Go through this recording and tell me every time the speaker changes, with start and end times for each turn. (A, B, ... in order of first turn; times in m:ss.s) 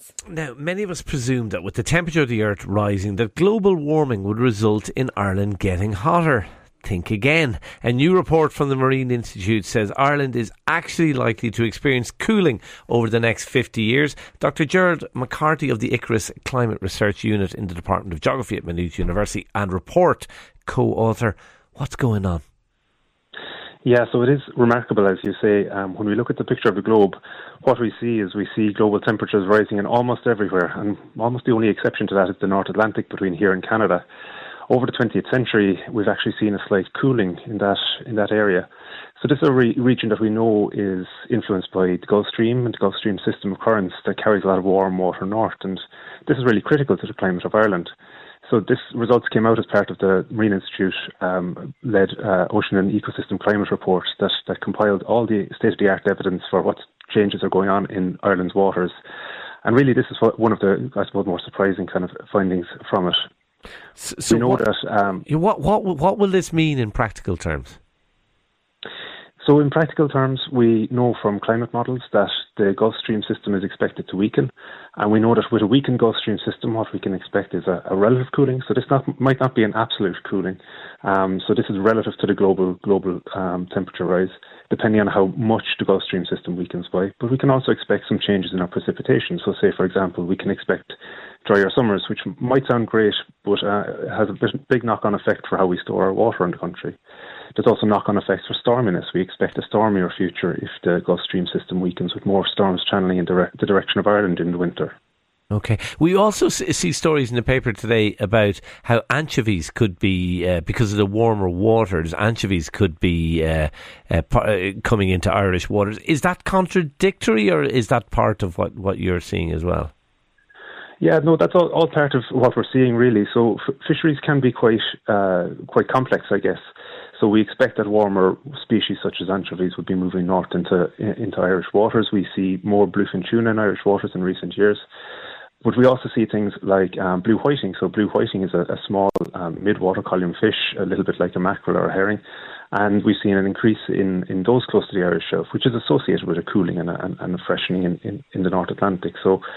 0:00.3-0:22.4 A
0:23.8-0:34.0 B
0:34.7-0:38.7 B
0:39.2-0:47.9 B
0:48.4-0:59.0 B
0:59.6-1:03.2 B
1:04.0-1:04.6 A
1:04.3-1:05.2 B
1:05.3-1:07.8 A
1:09.4-1:37.0 B
1:37.6-1:45.0 B
1:45.5-1:59.9 A
2:01.0-2:06.6 B
2:07.2-2:14.8 B
2:15.6-2:22.2 B
2:22.7-2:29.4 B